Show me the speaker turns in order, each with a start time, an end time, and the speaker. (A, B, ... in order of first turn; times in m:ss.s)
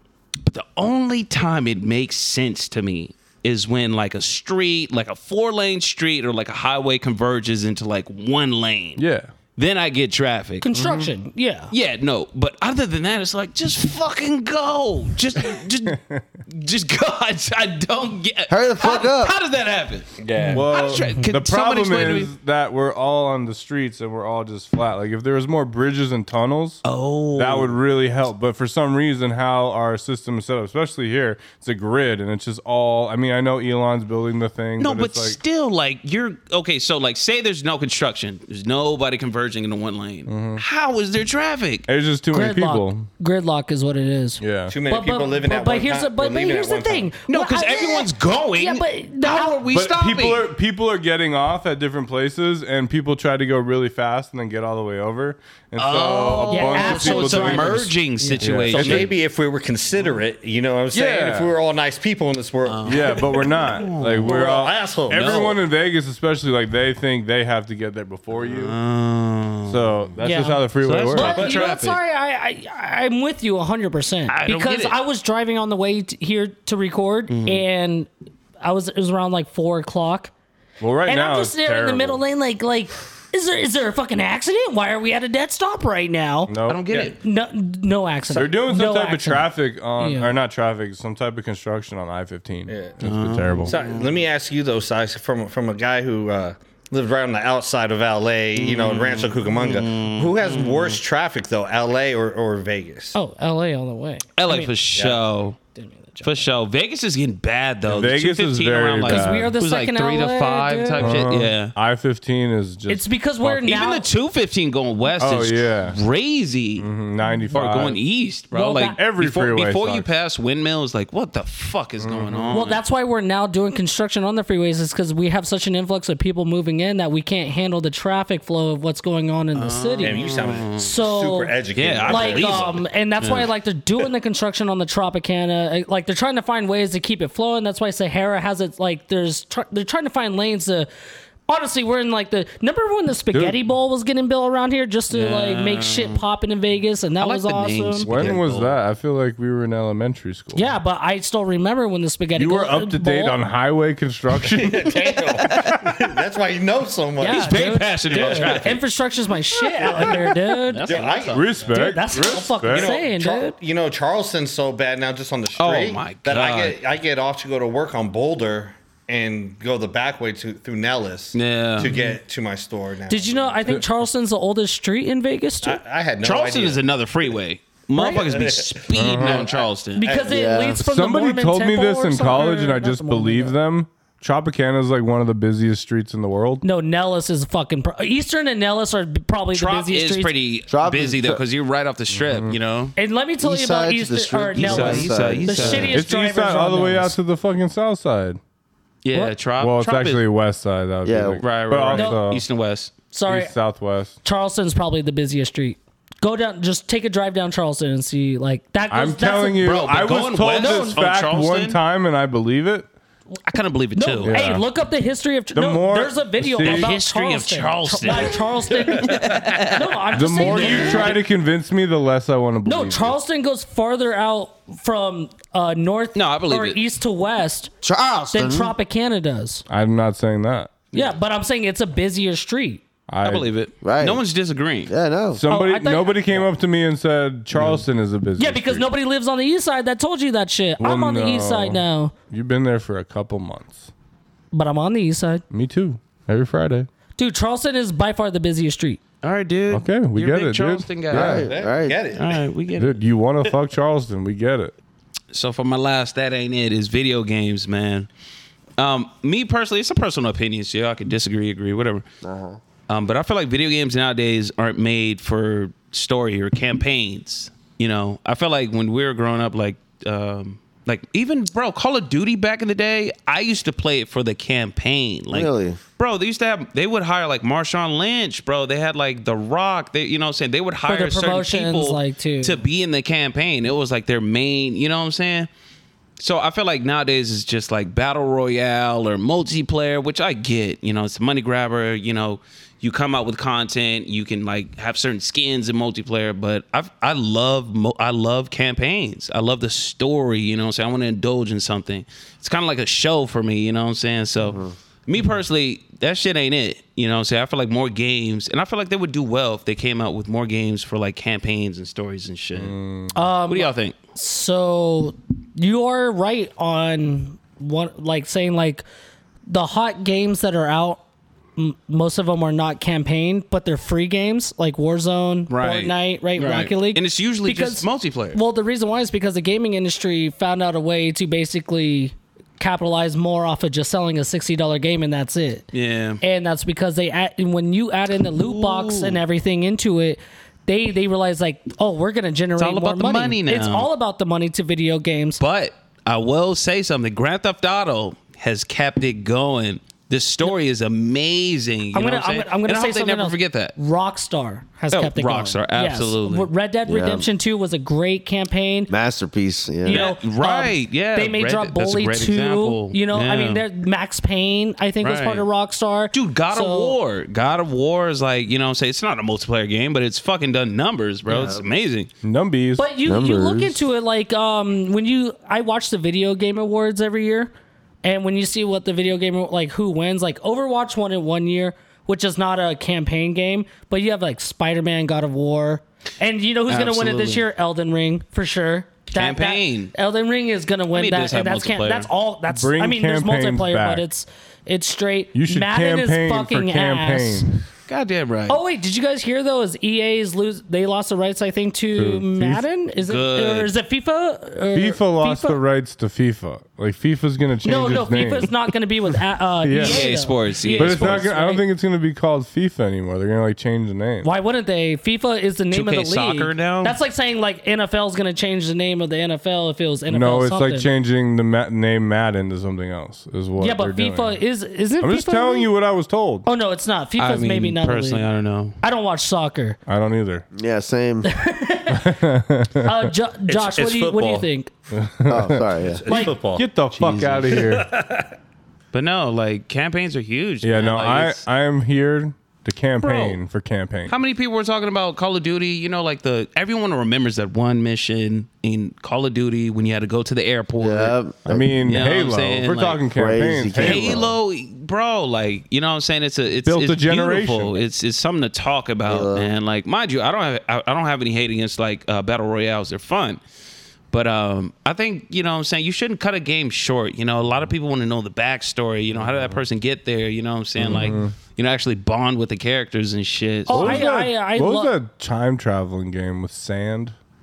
0:00.4-0:09.0 A
0:09.0-0:09.3 B
0:09.6-0:10.7 A
0:10.6-0:11.7 C
0:10.7-0:11.1 B
0:11.7-0:22.3 A
0:15.9-0:16.2 B
0:18.5-0:19.3 D
0:20.2-0:20.6 E
0:20.5-0:26.8 B
0:20.9-0:21.2 C
0:26.8-0:27.8 A
0:27.4-0:35.4 B
0:34.8-0:41.8 A
0:40.3-0:40.6 B
0:41.9-0:43.1 B
0:42.3-0:49.6 C
0:44.4-0:44.7 B
0:44.7-0:47.1 E
0:47.3-0:50.5 A
0:49.7-0:59.1 B
0:55.8-0:59.1 A
0:56.5-0:59.0 C
0:58.8-1:05.5 E
1:00.9-1:01.5 B
1:02.6-1:04.4 A
1:02.8-1:08.7 B
1:05.1-1:05.6 A
1:08.4-1:10.0 A
1:09.6-1:11.4 B
1:10.2-1:18.1 C
1:10.8-1:12.0 A
1:11.4-1:11.6 E
1:14.3-1:15.0 A
1:17.3-1:17.6 A
1:18.6-1:20.3 C
1:20.8-1:22.2 B
1:21.0-1:30.3 C
1:26.5-1:26.9 B
1:26.7-1:27.2 A
1:28.3-1:33.7 B
1:32.7-1:33.0 E
1:33.0-1:34.2 A
1:33.7-1:43.2 E
1:38.5-1:41.0 A
1:43.1-1:44.7 C
1:44.4-1:45.6 A
1:45.0-1:45.2 E
1:45.7-1:46.5 C
1:46.2-1:51.7 A
1:47.9-1:49.6 B
1:49.0-1:51.2 C
1:51.0-1:53.6 B
1:52.9-1:54.1 C
1:53.6-1:56.8 A
1:55.2-1:56.0 B
1:56.8-1:58.0 B
1:57.5-2:02.8 A
1:58.5-1:59.0 C
1:58.9-2:00.1 B
2:02.0-2:02.6 B
2:02.5-2:10.2 C
2:09.5-2:10.9 A
2:10.0-2:12.7 E
2:10.8-2:20.9 C
2:11.7-2:14.0 A
2:21.5-2:28.1 C
2:23.3-2:23.6 B
2:25.1-2:26.2 A
2:27.2-2:28.7 A
2:28.0-2:30.7 B
2:30.5-2:33.4 C
2:32.3-2:35.9 B
2:34.5-2:38.8 E
2:35.3-2:35.7 A
2:37.2-2:41.1 C
2:37.2-2:38.8 A
2:39.7-2:40.2 E
2:39.8-2:41.6 A
2:40.8-2:41.8 E
2:41.3-2:42.9 B
2:41.6-2:43.5 C
2:42.7-2:53.8 E
2:45.6-2:46.8 A
2:51.3-2:51.9 A
2:51.8-2:52.1 C
2:53.1-2:55.8 C
2:55.6-2:56.8 E
2:56.2-3:00.1 A
2:57.9-2:58.2 C
2:58.0-3:00.5 E
2:58.9-2:59.4 B
3:00.0-3:03.6 C
3:00.3-3:00.8 D
3:00.8-3:06.6 B
3:06.6-3:10.3 C
3:09.5-3:12.9 A
3:10.7-3:11.4 D
3:12.1-3:12.6 B
3:13.0-3:17.2 C
3:13.4-3:16.0 D
3:14.6-3:16.0 A
3:15.9-3:18.4 B
3:19.0-3:20.2 A
3:19.6-3:22.4 B
3:21.0-3:21.4 D
3:21.4-3:22.9 A
3:21.9-3:22.2 C
3:23.1-3:23.5 C
3:23.3-3:24.2 B
3:24.2-3:29.8 C
3:28.9-3:32.9 B
3:29.6-3:31.8 A
3:30.5-3:31.0 C
3:33.4-3:34.6 A
3:33.9-3:41.2 C
3:34.2-3:34.6 B
3:35.5-3:37.0 B
3:36.6-3:41.1 A
3:38.9-3:39.6 E
3:40.1-3:43.2 B
3:42.6-3:47.7 C
3:46.1-3:46.8 A
3:47.8-3:48.7 D
3:48.3-3:49.6 C
3:49.7-3:50.8 B
3:50.9-3:52.8 C
3:53.1-3:53.5 B
3:53.2-3:54.9 A
3:53.8-3:54.2 D
3:54.9-3:55.4 D
3:55.3-3:58.9 B
3:55.5-3:56.4 C
3:58.4-4:02.1 C
4:00.8-4:03.9 B
4:04.5-4:05.4 C
4:05.5-4:06.9 B
4:07.2-4:09.0 C
4:09.2-4:11.5 A
4:09.7-4:11.4 B
4:11.1-4:12.0 D
4:11.2-4:12.5 E
4:12.1-4:13.0 A
4:12.8-4:14.7 B
4:15.3-4:18.1 A
4:18.8-4:22.0 A
4:22.2-4:22.6 D
4:22.9-4:45.5 A
4:35.3-4:35.8 D
4:40.9-4:42.6 C
4:46.2-5:12.7 A
5:04.4-5:04.7 D
5:12.5-5:13.3 B
5:13.1-5:18.8 C
5:13.5-5:14.0 A
5:19.5-5:21.0 C
5:21.6-5:35.6 C
5:25.5-5:28.4 A
5:35.7-5:36.2 A
5:36.2-5:45.4 C
5:38.4-5:39.2 A
5:42.6-5:43.9 A
5:45.4-5:53.7 A
5:51.9-5:58.9 C
5:54.9-5:56.5 A
5:56.9-5:57.3 D
5:58.9-6:00.1 D
5:59.8-6:07.0 C
5:59.9-6:03.6 A
6:05.0-6:05.4 A
6:06.1-6:12.1 A
6:11.3-6:11.6 D
6:12.2-6:12.9 B
6:12.8-6:17.5 C
6:13.0-6:13.8 D
6:18.0-6:37.6 C
6:26.7-6:27.4 A
6:29.1-6:29.9 A
6:30.9-6:32.1 A
6:32.5-6:34.0 B
6:35.3-6:37.6 B
6:37.9-6:38.6 A
6:38.5-6:45.6 C
6:41.9-6:42.6 B
6:43.0-6:43.7 A
6:44.7-6:48.5 B
6:47.6-6:51.6 C
6:49.6-6:50.1 B
6:49.8-6:51.3 A
6:50.8-6:54.3 B
6:54.2-7:00.9 C
6:55.7-6:57.0 A
7:00.1-7:04.4 B
7:03.6-7:05.7 C
7:05.0-7:06.5 B
7:06.4-7:08.2 C
7:07.2-7:08.8 A
7:08.8-7:09.8 C
7:09.9-7:10.4 B
7:10.5-7:11.3 D
7:11.2-7:12.2 C
7:11.9-7:13.1 B
7:12.8-7:14.7 C
7:13.5-7:14.5 E
7:14.9-7:17.9 B
7:15.3-7:16.0 D
7:15.8-7:16.7 E
7:16.1-7:16.3 C
7:17.0-7:17.6 D
7:17.5-7:18.3 E
7:18.9-7:21.4 A
7:20.6-7:24.1 B
7:23.0-7:23.4 A
7:24.1-7:31.2 A
7:30.8-7:31.7 D
7:31.4-7:34.3 B
7:31.8-7:33.0 A
7:33.1-7:34.3 D
7:33.7-7:43.4 A
7:36.6-7:37.8 B
7:39.0-7:39.5 D
7:44.1-7:54.0 A
7:50.8-7:51.3 B
7:53.7-7:54.9 C
7:53.7-7:57.1 B